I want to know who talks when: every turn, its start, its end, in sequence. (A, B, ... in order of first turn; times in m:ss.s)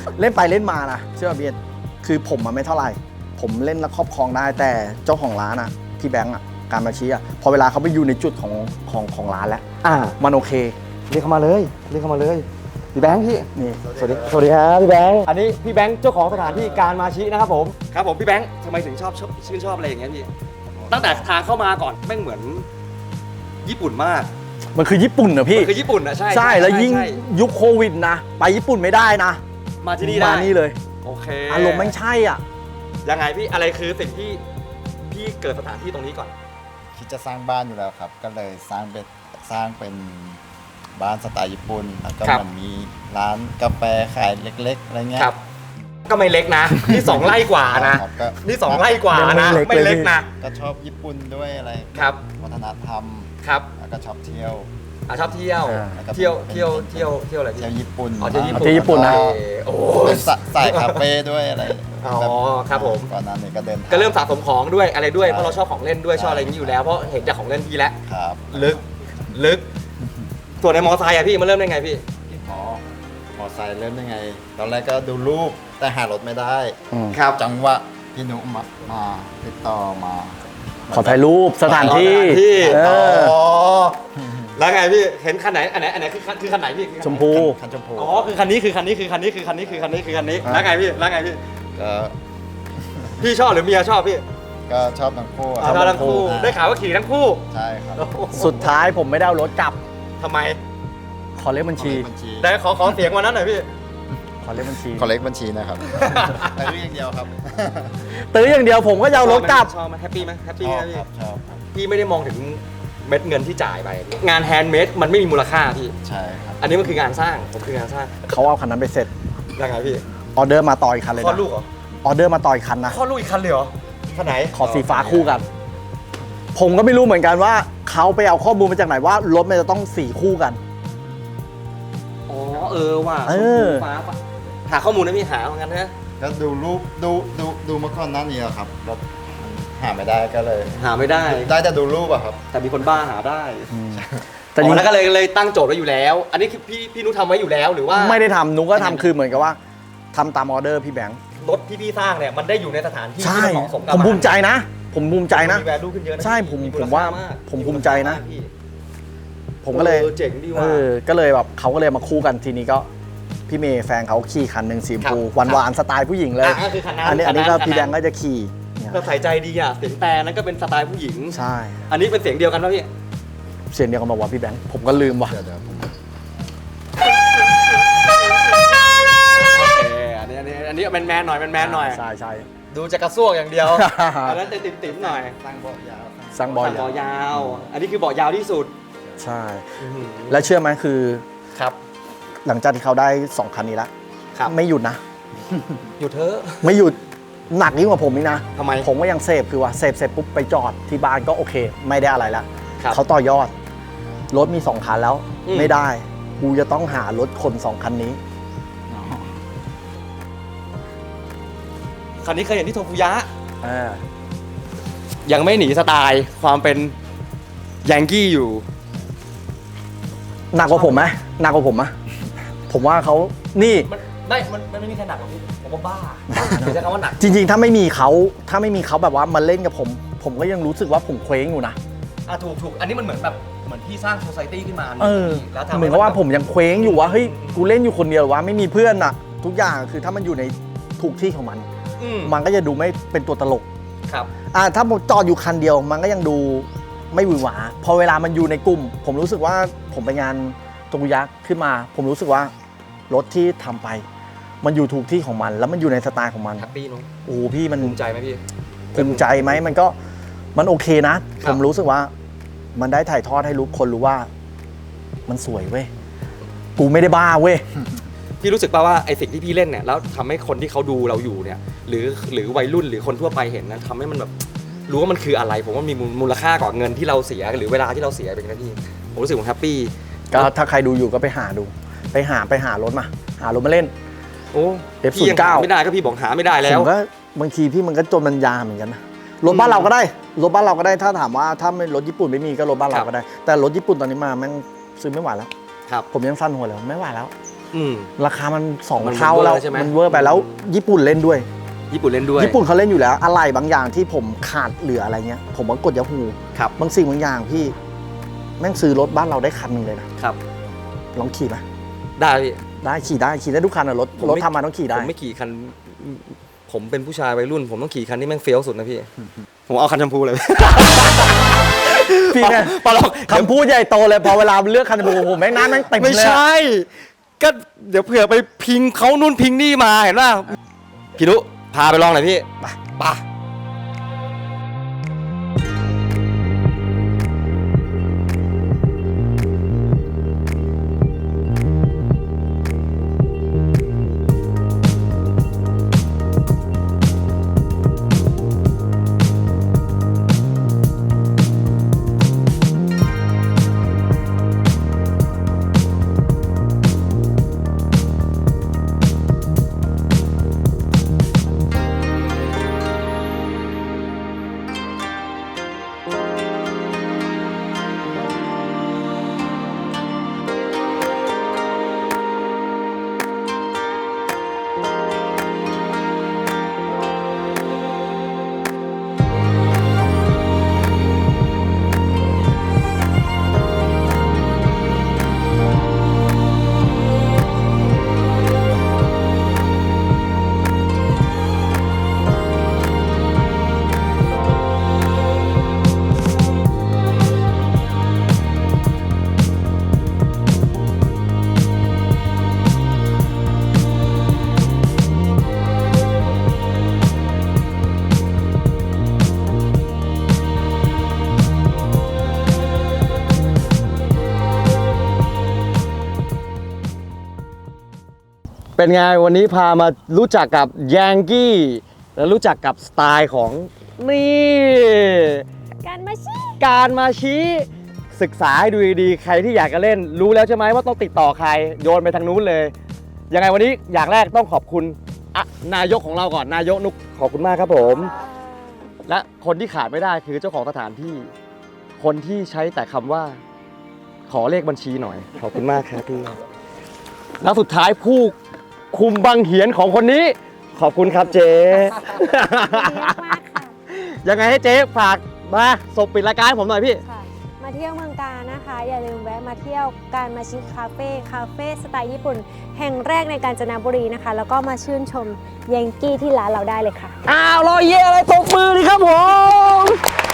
0:00.1-0:09.6 A
0:09.8-0:10.2 B
0:10.2-0:10.8 A
0:11.1-0:20.3 B
0:13.6-0:13.8 A
0:13.8-0:14.4 C
0:16.4-0:16.9 C
0:20.7-0:21.2 C
0:20.9-0:22.7 B
0:23.6-0:24.3 B
0:24.8-0:25.7 A
0:25.5-0:27.2 B
0:26.3-0:29.4 A
0:29.8-0:32.0 B
0:30.0-0:30.8 A
0:31.5-0:32.4 A
0:33.0-0:34.4 B
0:35.1-0:36.3 B
0:37.0-0:40.4 C
0:41.0-0:45.3 C
0:46.1-0:50.3 B
0:46.7-0:49.0 C
0:49.1-0:50.1 A
0:50.4-0:54.7 C
0:52.0-0:52.2 B
0:53.4-0:53.7 B
0:55.1-1:01.1 B
0:55.6-0:56.0 A
0:55.9-0:59.4 C
0:58.6-0:59.2 A
0:59.9-1:04.2 C
1:02.0-1:03.1 B
1:03.9-1:08.0 B
1:05.2-1:06.8 C
1:08.1-1:08.8 C
1:08.5-1:08.8 B
1:09.3-1:09.6 B
1:10.6-1:12.0 B
1:12.3-1:12.8 C
1:13.4-1:16.8 C
1:16.9-1:17.2 A
1:17.1-1:17.4 B
1:17.4-1:20.4 C
1:20.9-1:24.5 C
1:20.9-1:23.4 A
1:21.8-1:22.9 B
1:24.5-1:27.4 B
1:27.0-1:27.6 A
1:27.3-1:28.3 C
1:28.0-1:31.4 B
1:29.6-1:30.0 C
1:30.4-1:30.7 A
1:31.8-1:32.2 C
1:32.9-1:33.2 C
1:33.2-1:34.2 B
1:34.7-1:36.6 C
1:35.6-1:36.4 A
1:35.6-1:37.4 B
1:37.5-1:38.6 C
1:38.0-1:38.6 B
1:38.4-1:39.8 A
1:40.2-1:40.6 B
1:41.4-1:42.1 A
1:41.8-1:42.5 C
1:42.4-1:43.7 B
1:44.4-1:45.1 A
1:44.8-1:48.1 C
1:45.9-1:46.5 B
1:48.1-1:49.7 A
1:49.2-1:51.0 B
1:50.6-1:51.6 C
1:51.7-1:56.0 B
1:56.0-1:56.7 C
1:56.6-1:58.2 B
1:58.2-1:59.1 A
1:59.6-2:00.0 B
2:00.4-2:01.4 A
2:01.2-2:01.7 B
2:02.0-2:03.0 A
2:02.9-2:04.6 B
2:04.5-2:05.4 A
2:04.6-2:05.4 C
2:06.6-2:10.6 A
2:12.3-2:15.9 B
2:13.3-2:13.9 A
2:16.2-2:22.4 C
2:20.8-2:21.5 B
2:22.5-2:23.7 B
2:23.7-2:24.9 A
2:23.9-2:24.2 C
2:24.6-2:28.2 B
2:27.9-2:29.6 A
2:28.8-2:29.1 B
2:30.1-2:31.2 A
2:31.4-2:34.3 B
2:33.2-2:35.7 A
2:35.3-2:38.5 B
2:36.2-2:38.2 A
2:39.6-2:42.9 A
2:39.7-2:40.9 B
2:43.5-2:49.1 A
2:45.0-2:45.6 B
2:46.4-2:48.0 B
2:48.9-2:52.9 B
2:51.3-2:51.8 A
2:53.7-2:55.4 A
2:55.0-2:55.9 C
2:59.2-3:02.0 B
3:01.6-3:02.5 A
3:02.7-3:05.4 B
3:03.7-3:04.4 A
3:04.4-3:07.2 C
3:06.4-3:07.4 A
3:06.6-3:08.7 B
3:09.2-3:09.8 A
3:09.8-3:10.4 B
3:10.3-3:11.2 A
3:12.4-3:13.9 A
3:14.5-3:15.0 A
3:16.0-3:16.7 B
3:16.6-3:17.0 A
3:17.5-3:23.5 A
3:18.6-3:18.9 B
3:24.3-3:28.2 A
3:25.4-3:25.8 B
3:28.9-3:29.2 A
3:32.2-3:33.3 B
3:33.6-3:34.0 A
3:35.3-3:37.0 B
3:37.8-3:38.6 B
3:40.5-3:42.0 A
3:40.7-3:41.1 B
3:42.7-3:43.9 A
3:43.9-3:47.4 B
3:46.3-3:51.8 A
3:52.3-3:56.2 B
3:55.0-4:01.7 A
3:56.8-3:57.7 B
4:02.0-4:02.4 B
4:02.2-4:03.7 A
4:04.5-4:12.5 A
4:13.1-4:14.0 A
4:14.6-4:16.7 A
4:16.6-4:17.1 B
4:17.3-4:18.0 A
4:17.8-4:18.4 B
4:18.9-4:19.9 A
4:19.0-4:19.6 B
4:20.6-4:22.1 A
4:22.8-4:24.3 A
4:25.3-4:25.9 A
4:26.8-4:27.7 A
4:28.4-4:34.3 B
4:34.9-4:40.5 B
4:40.3-4:43.9 A
4:44.5-4:46.9 B
4:45.0-4:45.7 A
4:46.6-4:55.5 A
4:49.5-4:49.9 B
4:56.1-4:57.3 A
4:57.7-4:58.1 B
4:58.2-5:01.5 A
4:59.0-5:00.6 B
5:01.9-5:02.6 B
5:02.4-5:07.8 A
5:08.6-5:10.1 A
5:11.1-5:11.6 A
5:12.2-5:12.6 B
5:12.8-5:15.1 A
5:14.2-5:19.1 B
5:19.7-5:23.5 B
5:22.3-5:26.4 A
5:25.1-5:26.9 B
5:27.4-5:30.6 B
5:31.2-5:33.2 B
6:58.8-7:05.4 B
7:05.8-7:06.6 D
7:06.6-7:12.7 B
7:13.3-7:18.2 B
7:17.8-7:18.9 D
7:19.1-7:21.3 B
7:22.0-7:23.4 B
7:24.3-7:26.4 B
7:27.4-7:28.4 B
7:28.9-7:37.0 B
7:32.6-7:33.7 D
7:37.0-7:47.2 D
7:47.2-7:50.0 B